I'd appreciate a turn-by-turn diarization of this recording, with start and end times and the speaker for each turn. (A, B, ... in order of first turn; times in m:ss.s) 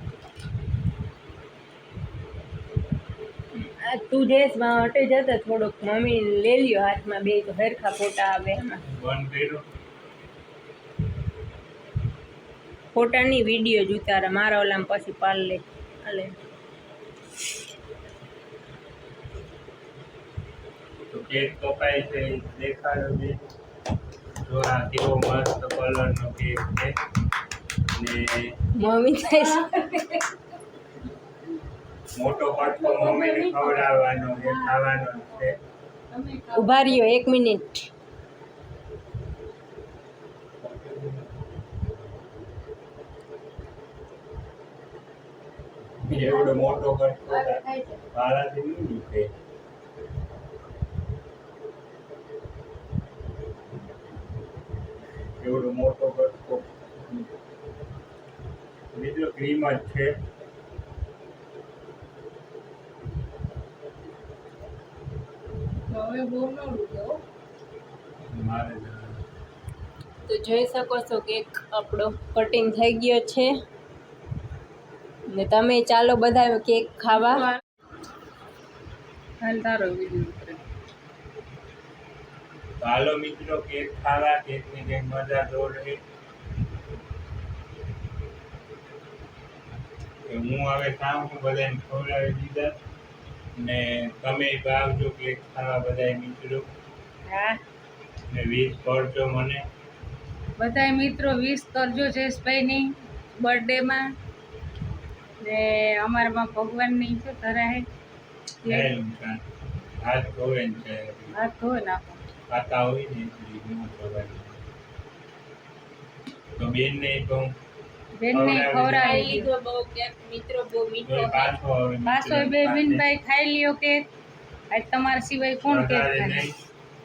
0:03.5-0:08.8 A
0:08.9-0:09.6 B
0:12.9-0:16.3 A
0:21.1-0:23.4 B
0:24.4-0:26.9 B
0:27.9-0:28.6 B
0:28.8-0:30.0 A
0:29.3-0:30.2 C
0:32.1-0:35.6 B
0:32.5-0:37.1 C
0:36.5-0:37.9 A
0:40.6-0:41.4 B
0:46.0-0:49.3 B
0:46.1-0:48.0 A
0:55.4-0:56.7 B
0:58.9-1:00.2 B
1:05.9-1:07.2 C
1:08.3-1:09.2 B
1:10.2-1:13.5 A
1:15.3-1:17.5 A
1:19.4-1:20.6 C
1:22.8-1:26.0 B
1:30.2-1:32.8 B
1:33.6-1:36.7 B
1:37.3-1:37.6 C
1:38.3-1:39.6 B
1:40.6-1:44.1 C
1:45.4-1:47.8 C
1:48.6-1:48.9 C
1:48.6-1:49.4 B
1:50.0-1:51.3 B
1:51.3-1:52.2 C
1:52.5-1:54.6 B
1:56.6-1:57.5 B
1:58.2-1:59.5 C
1:58.3-1:59.4 B
1:58.9-2:01.6 A
2:01.0-2:03.0 B
2:02.0-2:04.1 C
2:04.7-2:06.5 C
2:05.6-2:06.6 B